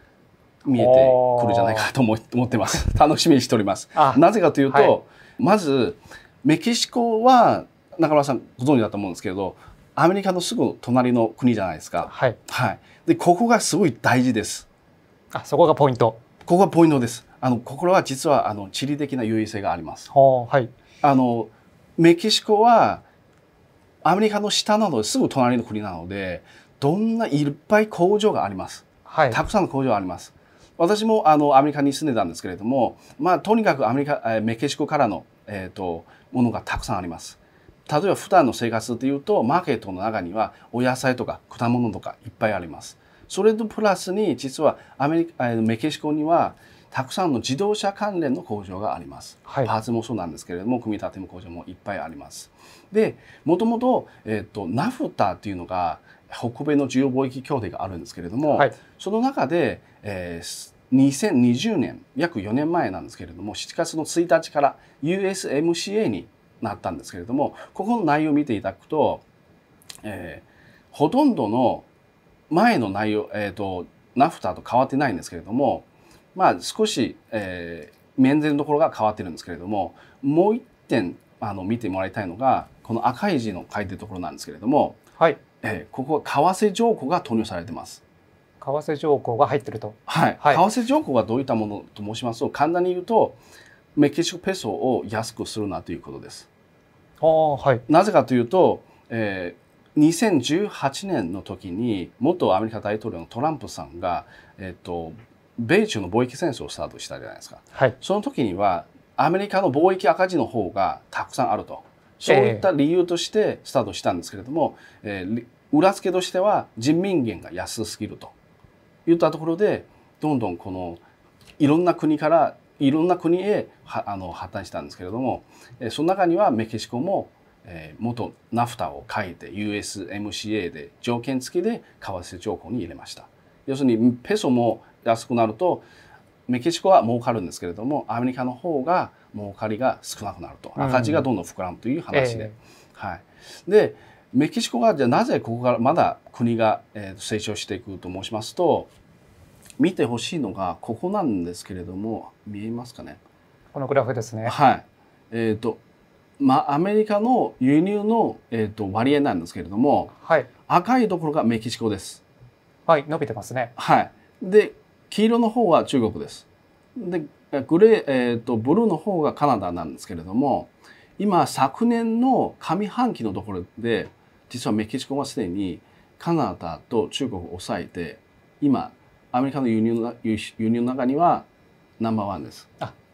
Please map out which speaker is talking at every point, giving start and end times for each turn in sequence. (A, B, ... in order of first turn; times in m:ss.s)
0:00.6-0:14.7 A
0:00.7-0:01.9 B
0:04.0-0:04.9 B
0:12.1-0:12.4 B
0:15.3-0:16.2 B
0:16.4-0:20.1 A
0:20.1-0:20.7 B
0:21.0-0:23.0 A
0:24.0-1:09.2 A
0:29.1-0:29.4 B
0:49.5-0:49.7 B
1:10.0-1:11.9 A
1:12.5-1:25.0 A
1:25.6-1:28.0 A
1:28.6-1:30.6 B
1:30.1-1:33.4 A
1:33.9-1:36.5 A
1:37.2-1:37.8 B
1:37.9-1:58.3 A
1:52.3-1:52.7 B
1:59.0-2:01.0 A
2:01.6-2:15.8 A
2:16.5-2:28.9 A
2:20.8-2:21.2 B
2:22.1-2:22.6 B
2:29.8-2:33.2 A
2:33.7-2:34.6 B
2:34.4-2:35.8 A
2:36.4-2:40.1 A
2:40.2-2:40.5 B
2:40.7-2:42.2 A
2:42.9-2:43.7 B
2:43.8-3:01.5 A
3:02.0-3:02.7 A